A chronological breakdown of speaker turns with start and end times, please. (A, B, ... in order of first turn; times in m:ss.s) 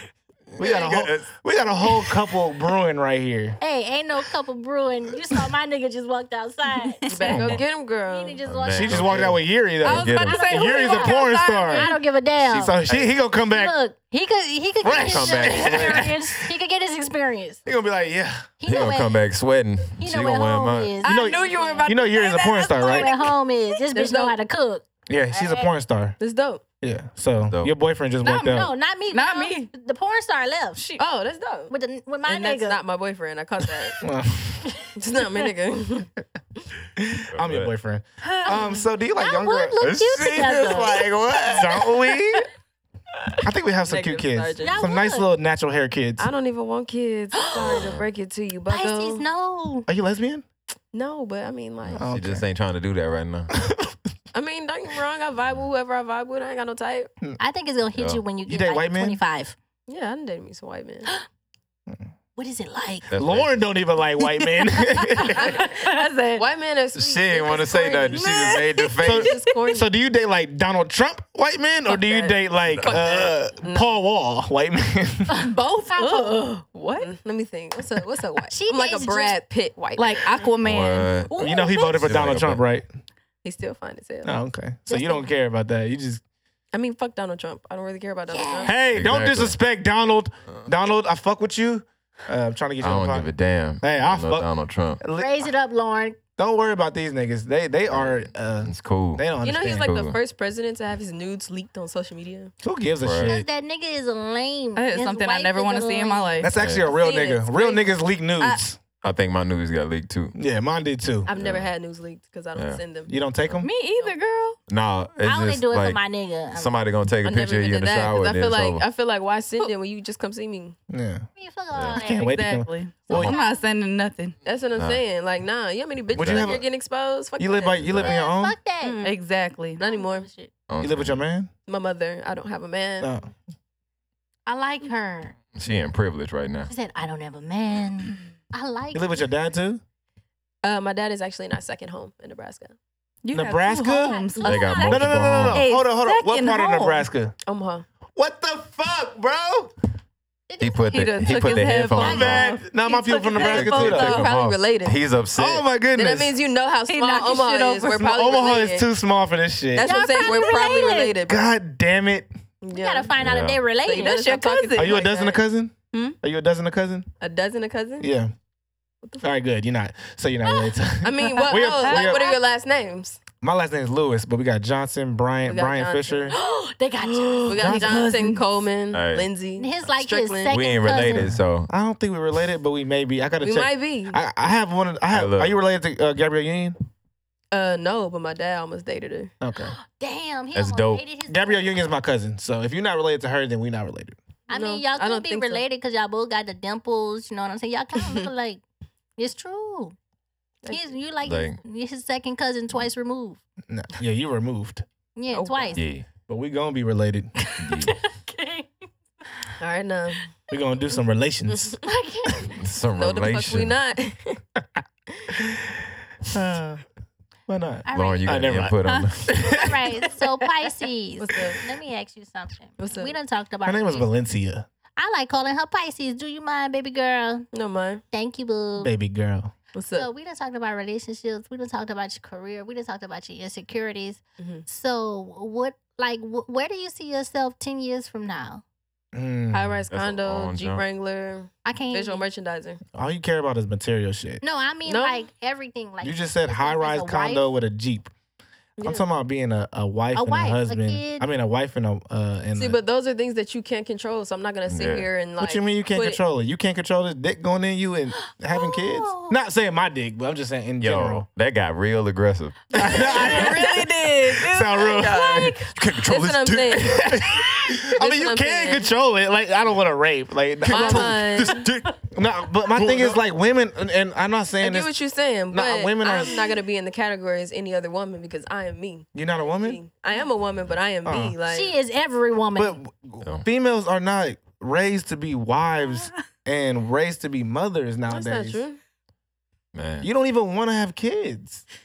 0:00.6-0:03.6 A
0:00.6-0:01.3 B
0:03.6-0:07.5 C
0:07.0-0:07.5 D
0:07.1-0:08.4 E
0:07.3-0:07.6 A
0:08.1-0:09.2 C
0:08.5-0:10.4 B
0:08.7-0:13.8 A
0:09.8-0:12.8 C
0:09.9-0:12.0 D
0:12.8-0:13.1 B
0:13.4-0:17.6 C
0:14.8-0:16.5 A
0:14.8-0:16.1 B
0:17.7-0:18.5 A
0:18.6-0:19.2 C
0:18.7-0:21.0 B
0:20.0-0:25.7 C
0:21.0-0:23.3 D
0:21.0-0:23.1 A
0:23.9-0:24.4 E
0:25.1-0:26.2 A
0:26.2-0:26.6 E
0:26.8-0:28.7 A
0:27.4-0:27.7 B
0:28.2-0:30.8 C
0:29.1-0:29.7 D
0:31.0-0:31.7 E
0:31.7-0:32.8 C
0:32.3-0:34.0 E
0:34.0-0:34.7 A
0:34.6-0:34.9 C
0:35.0-0:36.1 E
0:37.0-0:39.9 A
0:37.3-0:37.7 B
0:38.2-0:38.6 D
0:38.5-0:41.1 C
0:39.8-0:42.0 B
0:41.5-0:42.5 A
0:43.4-0:46.3 A
0:43.8-0:44.9 E
0:44.6-0:45.3 C
0:46.2-0:49.2 E
0:47.4-0:47.9 C
0:47.6-0:48.0 B
0:48.7-0:49.9 C
0:49.9-0:50.4 A
0:50.9-0:52.0 E
0:51.8-0:53.5 B
0:51.9-0:52.5 A
0:53.6-0:54.0 A
0:54.3-0:57.1 E
0:57.4-0:59.6 C
0:58.0-0:58.2 B
0:58.5-0:59.2 A
0:59.9-1:01.1 E
1:02.4-1:03.1 C
1:03.1-1:03.6 B
1:03.1-1:05.6 A
1:04.6-1:06.4 D
1:05.4-1:09.9 E
1:07.0-1:09.3 B
1:08.2-1:08.7 D
1:09.0-1:15.5 A
1:11.9-1:13.9 E
1:12.7-1:13.3 B
1:15.3-1:17.1 D
1:15.9-1:16.5 C
1:17.0-1:20.4 E
1:18.5-1:19.4 C
1:20.0-1:21.2 D
1:20.6-1:21.3 B
1:21.3-1:22.0 C
1:21.3-1:22.9 A
1:22.0-1:22.6 B
1:23.4-1:24.4 E
1:24.2-1:26.2 A
1:24.9-1:25.2 C
1:26.7-1:28.8 E
1:28.3-1:28.7 C
1:28.6-1:34.5 A
1:28.9-1:29.6 B
1:32.8-1:35.0 B
1:35.0-1:35.5 A
1:35.2-1:36.2 C
1:36.4-1:40.0 A
1:37.9-1:40.2 B
1:39.4-1:42.5 E
1:42.6-1:43.5 A
1:43.0-1:43.4 B
1:43.2-1:46.5 C
1:44.8-1:46.6 D
1:46.4-1:48.8 A
1:46.6-1:46.9 B
1:46.8-1:48.6 E
1:49.0-1:50.4 B
1:50.4-1:51.3 A
1:51.3-1:53.1 E
1:51.4-1:51.7 B
1:52.6-1:52.8 B
1:53.1-1:53.7 A
1:53.6-1:54.6 D
1:54.7-1:56.0 B
1:55.2-1:56.8 C
1:56.5-1:58.8 B
1:57.2-2:00.8 E
2:00.9-2:01.3 A
2:01.4-2:02.4 C
2:01.7-2:02.0 B
2:01.9-2:02.7 A
2:02.1-2:04.4 D
2:03.1-2:03.6 C
2:03.1-2:03.4 B
2:04.4-2:07.9 E
2:04.8-2:05.0 B
2:06.1-2:06.7 A
2:06.2-2:06.6 B
2:07.4-2:08.6 A
2:07.8-2:08.2 B
2:08.0-2:09.1 C
2:08.8-2:09.8 D
2:09.8-2:10.3 E
2:09.8-2:10.5 C
2:10.7-2:11.2 B
2:10.8-2:11.5 A
2:11.7-2:13.1 E
2:13.0-2:13.3 A
2:14.5-2:15.4 C
2:15.6-2:16.7 B
2:16.7-2:19.3 C
2:18.9-2:19.8 A
2:20.6-2:22.8 E
2:23.2-2:27.0 D
2:23.3-2:27.4 A
2:24.0-2:25.1 C
2:24.4-2:25.7 B
2:27.5-2:27.8 E
2:28.2-2:29.7 A
2:30.5-2:31.5 C
2:30.6-2:32.5 B
2:30.9-2:33.7 D
2:32.0-2:34.3 A
2:33.4-2:35.7 B
2:33.5-2:35.0 E
2:35.4-2:36.3 A
2:36.0-2:38.9 E
2:36.9-2:38.1 D
2:38.0-2:39.9 A
2:39.7-2:41.5 E
2:39.8-2:41.1 C
2:41.3-2:42.3 A
2:42.6-2:43.2 E
2:42.7-2:44.6 C
2:43.2-2:43.6 B
2:43.8-2:46.2 E
2:44.0-2:45.0 D
2:44.8-2:47.1 A
2:47.2-2:48.1 E
2:48.0-2:48.3 A
2:49.0-2:49.3 E
2:49.2-2:52.2 A
2:50.4-2:50.8 C
2:51.0-2:53.2 E
2:51.4-2:52.2 D
2:51.9-2:52.4 C
2:53.4-2:56.4 A
2:55.4-2:56.4 E
2:56.3-2:58.1 C
2:57.4-3:00.6 E
2:57.6-2:58.1 A
2:57.8-2:58.4 D
2:58.9-2:59.3 B
2:59.6-3:01.4 C
3:00.5-3:01.7 B
3:01.1-3:06.8 A
3:03.4-3:04.2 E
3:05.1-3:05.6 B
3:07.5-3:09.3 E
3:09.4-3:09.8 A
3:09.8-3:11.8 C
3:10.6-3:11.0 B
3:11.3-3:14.2 A
3:14.5-3:18.6 C
3:14.5-3:15.6 E
3:18.0-3:18.3 E
3:19.2-3:20.0 C
3:20.6-3:21.0 E
3:20.7-3:23.4 C
3:21.2-3:21.6 B
3:23.7-3:24.8 A
3:25.2-3:25.8 C
3:25.3-3:25.8 E
3:25.8-3:26.1 B
3:26.3-3:27.3 A
3:27.4-3:28.7 C
3:27.6-3:28.0 B
3:29.6-3:30.3 E
3:30.5-3:31.8 A
3:31.5-3:31.8 E
3:31.8-3:32.6 C
3:32.5-3:33.8 B
3:33.0-3:34.4 E
3:35.2-3:35.5 E
3:35.4-3:36.8 A
3:37.5-3:39.9 A
3:37.9-3:38.6 C
3:37.9-3:39.2 B
3:38.8-3:39.1 D
3:39.4-3:44.1 C
3:41.2-3:41.6 E
3:42.8-3:43.1 E
3:43.6-3:44.7 A
3:45.0-3:47.5 C
3:47.5-3:48.0 E
3:48.1-3:48.9 C
3:48.8-3:49.5 A
3:49.8-3:50.1 E
3:49.9-3:58.6 C
3:54.4-3:54.6 E
3:59.1-3:59.8 A
3:59.5-4:02.8 E
3:59.9-4:00.8 B
4:01.6-4:02.2 C
4:03.0-4:04.4 A
4:04.4-4:07.5 C
4:04.9-4:05.2 E
4:06.0-4:08.1 A
4:08.8-4:09.1 E
4:08.8-4:12.8 A
4:10.1-4:11.3 C
4:12.6-4:16.2 E
4:14.7-4:15.1 B
4:15.4-4:21.3 A
4:18.2-4:19.4 C
4:20.8-4:23.4 B
4:22.7-4:25.6 A
4:22.8-4:27.2 E
4:23.2-4:24.2 D
4:25.7-4:27.2 B
4:26.8-4:34.9 A
4:27.8-4:28.9 E
4:30.6-4:32.0 B
4:30.7-4:31.7 E
4:32.7-4:33.2 B
4:34.6-4:41.7 E
4:35.5-4:36.5 A
4:39.2-4:39.8 A
4:41.0-4:41.4 A
4:41.5-4:42.8 C
4:42.6-4:48.6 A
4:48.1-4:48.8 E
4:49.7-4:50.1 B
4:50.0-4:51.6 A